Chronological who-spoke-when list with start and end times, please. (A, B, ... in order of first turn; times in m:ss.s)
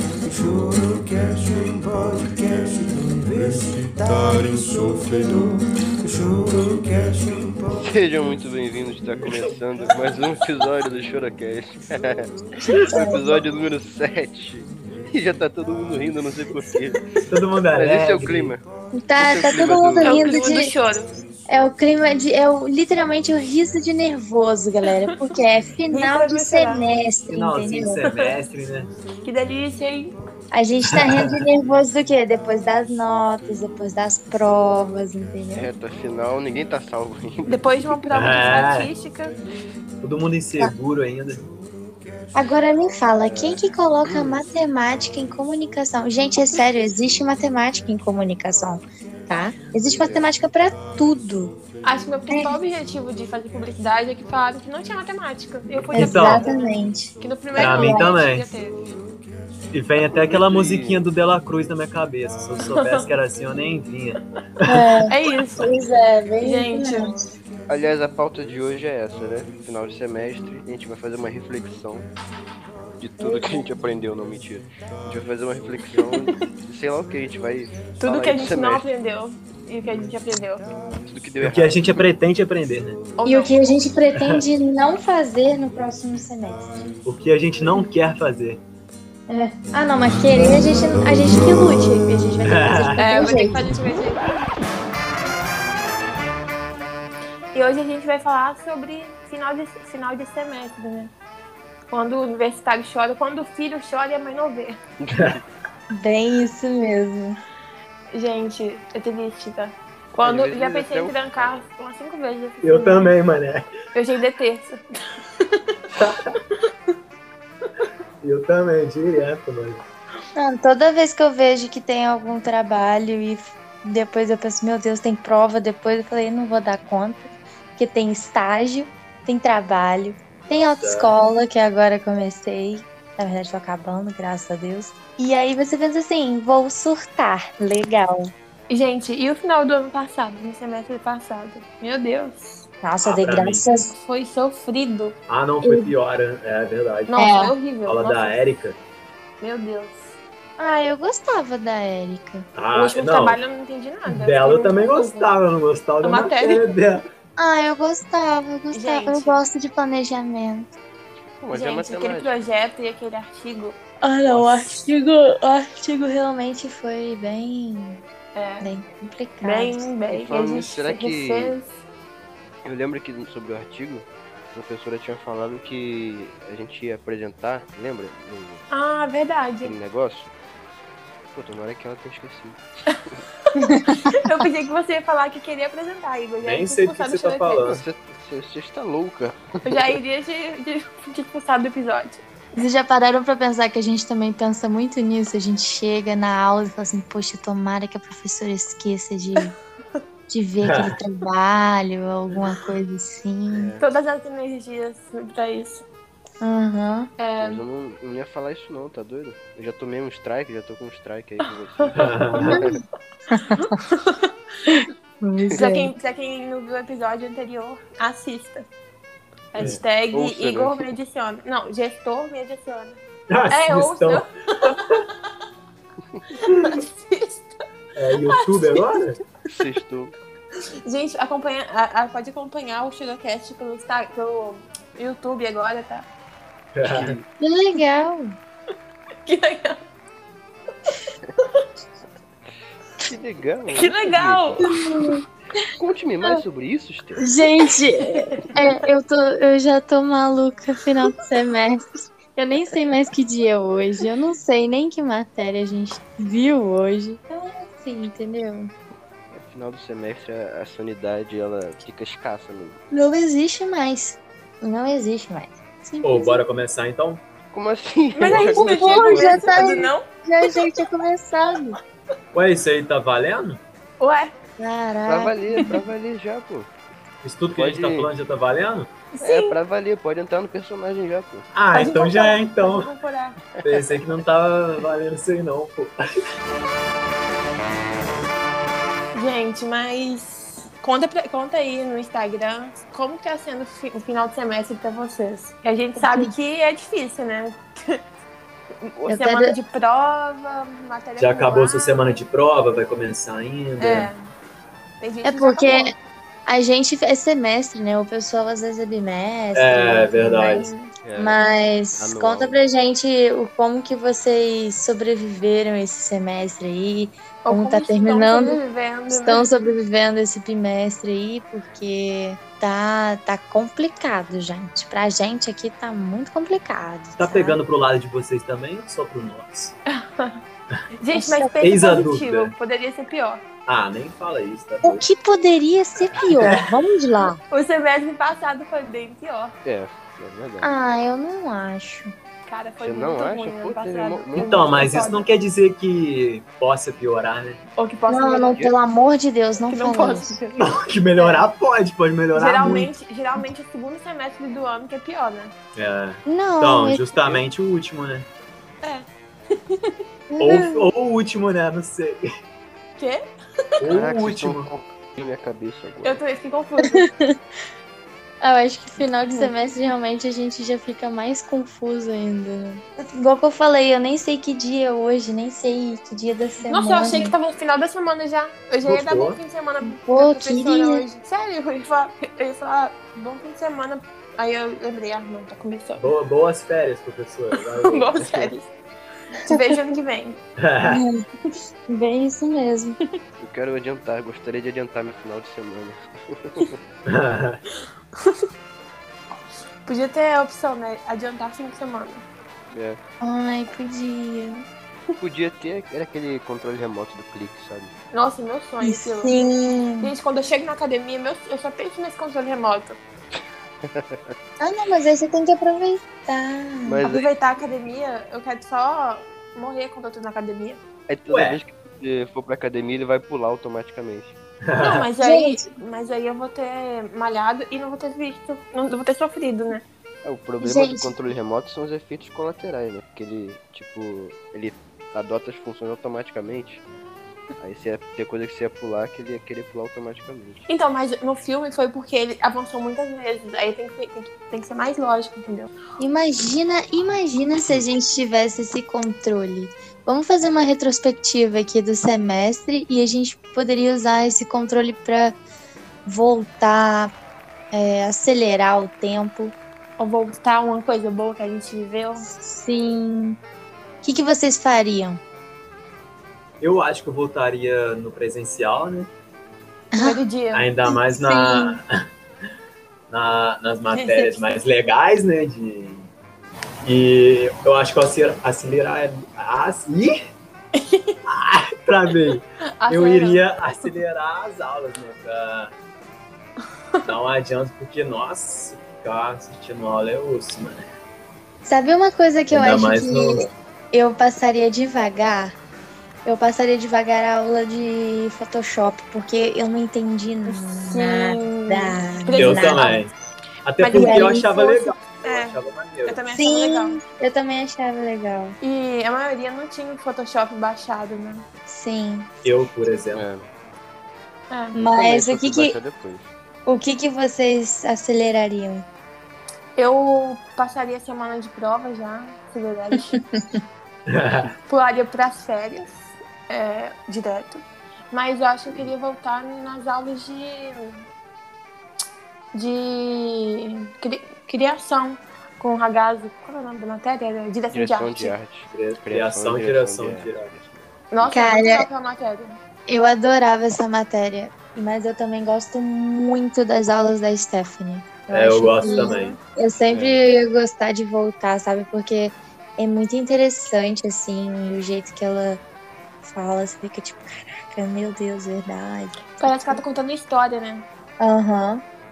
0:00.4-0:02.2 A
0:01.2-0:05.5 B
0:02.7-0:03.2 A
0:04.3-0:05.6 A
0:06.1-0:06.7 A
0:06.2-0:12.3 B
0:12.6-0:13.4 C
0:12.8-0:17.0 B
0:17.3-0:18.6 D
0:17.7-0:18.6 B
0:19.0-0:20.7 C
0:19.2-0:20.7 B
0:20.0-0:21.1 E
0:21.5-0:28.0 C
0:25.9-0:26.9 E
0:27.3-0:28.9 D
0:29.2-0:30.2 E
0:30.5-0:35.7 C
0:31.0-0:31.4 D
0:35.5-0:37.7 B
0:37.5-0:39.4 E
0:38.1-0:38.9 D
0:40.0-0:41.4 D
0:42.3-0:51.6 C
0:43.2-0:44.5 B
0:49.8-0:50.3 B
0:51.8-0:58.9 E
0:52.3-0:52.6 C
0:55.9-0:56.5 D
0:55.9-0:58.1 C
0:57.6-0:58.5 D
0:59.7-1:04.8 D
1:00.0-1:01.1 B
1:02.6-1:03.0 E
1:04.6-1:07.2 C
1:05.1-1:05.7 E
1:06.4-1:07.1 E
1:07.7-1:12.1 B
1:13.0-1:18.9 B
1:13.2-1:13.6 C
1:18.0-1:20.6 E
1:21.1-1:21.9 B
1:21.4-1:23.0 D
1:23.2-1:23.6 E
1:23.3-1:26.8 C
1:27.0-1:28.6 D
1:29.3-1:33.7 C
1:32.4-1:33.0 D
1:32.9-1:34.3 E
1:37.5-1:41.1 E
1:41.9-1:44.8 E
1:45.0-1:45.4 B
1:46.0-1:47.4 C
1:48.1-1:53.1 E
1:50.2-1:51.6 B
1:52.6-1:53.7 D
1:53.9-1:54.8 E
1:56.0-1:56.3 D
1:58.2-1:59.8 D
2:00.4-2:18.3 C
2:10.5-2:11.1 D
2:18.7-2:22.7 E
2:22.8-2:23.9 C
2:23.0-2:23.7 D
2:23.9-2:25.2 E
2:25.3-2:27.3 D
2:25.6-2:25.9 C
2:27.1-2:28.4 E
2:27.2-2:27.5 C
2:27.8-2:28.8 D
2:29.4-2:30.2 E
2:30.6-2:32.5 C
2:32.6-2:33.4 D
2:32.7-2:35.3 E
2:34.1-2:37.0 D
2:36.0-2:36.6 E
2:37.4-2:40.7 C
2:38.7-2:39.4 E
2:41.4-2:42.4 B
2:41.5-2:43.8 E
2:44.0-2:48.0 C
2:44.3-2:44.8 B
2:48.4-2:48.7 E
2:48.6-2:49.9 C
2:49.4-2:51.7 E
2:50.1-2:51.6 B
2:52.6-2:58.6 B
2:58.7-2:59.8 E
2:59.6-3:00.3 B
3:01.3-3:02.6 B
3:03.6-3:04.1 C
3:04.2-3:07.7 E
3:06.4-3:07.8 D
3:07.6-3:09.9 B
3:09.6-3:12.2 E
3:12.6-3:19.5 C
3:20.3-3:23.7 C
3:20.6-3:20.9 D
3:23.5-3:23.9 B
3:23.8-3:25.8 E
3:26.4-3:27.1 C
3:27.2-3:27.6 E
3:27.4-3:32.7 B
3:32.0-3:32.6 D
3:32.5-3:32.8 C
3:33.3-3:33.8 C
3:33.7-3:34.2 E
3:34.7-3:35.9 C
3:35.5-3:38.7 E
3:39.5-3:44.9 E
3:39.6-3:40.9 B
3:43.3-3:44.2 D
3:46.4-3:47.5 E
3:48.0-3:49.2 D
3:48.3-3:48.8 E
3:49.5-3:50.1 B
3:50.9-3:56.1 E
3:56.8-3:57.2 D
3:56.8-3:57.2 B
3:57.4-3:58.4 C
3:59.2-3:59.8 E
4:03.0-4:04.7 B
4:03.7-4:04.7 E
4:04.6-4:05.2 C
4:05.8-4:07.2 B
4:07.2-4:18.7 C
4:08.2-4:08.5 E
4:19.3-4:22.8 B
4:22.9-4:26.4 C
4:26.0-4:27.2 D
4:27.5-4:29.8 B
4:28.2-4:30.0 E
4:28.3-4:31.8 C
4:32.3-4:33.6 D
4:34.0-4:34.3 E
4:34.6-4:35.7 C
4:35.1-4:36.7 B
4:37.2-4:38.9 D
4:37.5-4:38.1 B
4:39.2-4:39.5 E
4:39.2-4:41.5 B
4:41.5-4:42.9 D
4:41.7-4:43.4 E
4:43.6-4:46.0 D
4:49.1-4:58.0 E
4:56.0-4:56.3 C
4:58.9-5:02.1 E
4:59.1-4:59.6 C
5:01.2-5:04.1 D
5:03.8-5:04.3 E
5:05.0-5:05.9 E
5:05.2-5:05.9 C
5:06.5-5:27.6 C
5:09.6-5:10.7 D
5:10.5-5:10.9 E
5:11.0-5:11.4 B
5:12.0-5:12.6 B
5:17.4-5:19.5 E
5:27.2-5:29.8 D
5:30.0-5:30.4 E
5:31.0-5:33.4 E
5:31.1-5:31.6 C
5:31.6-5:32.5 D
5:33.7-5:35.0 D
5:34.8-5:37.4 C
5:36.1-5:36.6 D
5:37.5-5:39.6 E
5:39.6-5:40.7 B
5:40.6-5:42.1 C
5:42.5-5:45.3 E
5:42.8-5:44.8 B
5:44.4-5:47.6 D
5:47.8-5:48.6 E
5:48.1-5:50.4 C
5:48.5-5:48.8 B
5:49.7-5:51.5 E
5:50.6-5:52.9 D
5:52.3-5:55.5 E
5:55.8-5:58.3 D
5:56.3-5:57.2 C
5:58.8-5:59.9 E
6:00.3-6:00.8 C
6:00.4-6:02.2 D
6:03.0-6:03.2 E
6:03.8-6:04.7 D
6:03.9-6:06.2 B
6:06.0-6:07.1 E
6:06.8-6:07.3 C
6:08.4-6:17.4 C
6:09.3-6:09.5 E
6:16.7-6:26.1 E
6:18.8-6:19.4 D
6:19.8-6:21.0 C
6:26.0-6:28.1 D
6:27.8-6:28.7 E
6:28.2-6:28.5 B
6:29.5-6:30.4 E
6:30.6-6:31.0 D
6:30.9-6:31.2 C
6:31.9-6:33.0 C
6:33.4-6:36.8 B
6:37.1-6:37.6 D
6:39.8-6:42.2 E
6:42.7-6:43.0 B
6:43.2-6:44.6 C
6:45.2-6:47.9 B
6:48.1-6:49.4 E
6:48.8-6:50.1 C
6:50.0-6:53.0 E
6:54.6-6:57.0 C
6:56.9-6:57.3 B
6:57.1-7:00.8 E
7:01.1-7:04.4 B
7:01.3-7:01.6 D
7:04.7-7:05.1 D
7:04.8-7:09.8 E
7:05.2-7:05.7 C
7:10.2-7:16.8 B
7:10.6-7:11.2 C
7:17.6-7:20.7 B
7:20.7-7:25.7 E
7:26.0-7:35.4 C
7:36.1-7:37.1 C
7:37.7-7:39.6 C
7:40.0-7:42.3 E
7:42.2-7:43.4 C
7:44.0-7:45.2 C
7:46.6-7:49.1 D
7:49.9-7:50.2 C
7:50.0-7:50.7 E
7:50.5-7:51.9 D
7:50.9-7:51.8 C
7:53.1-7:56.1 D
7:53.9-7:54.4 E
7:56.8-8:00.1 D
8:00.8-8:01.2 E
8:01.3-8:05.7 D
8:02.8-8:03.9 E
8:07.0-8:10.9 D
8:11.6-8:15.6 C
8:12.5-8:13.4 D
8:16.2-8:23.1 C
8:20.5-8:22.8 E
8:22.4-8:23.1 D
8:23.6-8:26.2 D
8:23.8-8:27.0 E
8:23.9-8:24.6 C
8:26.3-8:28.6 C
8:28.6-8:31.4 E
8:31.7-8:32.4 C
8:32.4-8:33.2 D
8:33.1-8:33.5 B
8:34.5-8:34.8 E
8:34.8-8:35.8 C
8:34.8-8:36.3 B
8:36.7-8:38.9 C
8:39.8-8:43.2 E
8:43.1-8:43.6 C
8:44.1-8:44.5 D
8:44.7-8:50.9 E
8:52.5-8:58.3 E
8:57.7-9:00.9 B
8:58.7-9:00.5 D
9:01.1-9:02.6 E
9:01.2-9:01.9 C
9:02.9-9:15.6 C
9:08.3-9:09.4 D
9:08.8-9:09.4 E
9:09.9-9:10.3 B
9:16.2-9:19.8 C
9:19.4-9:20.9 E
9:21.2-9:21.8 C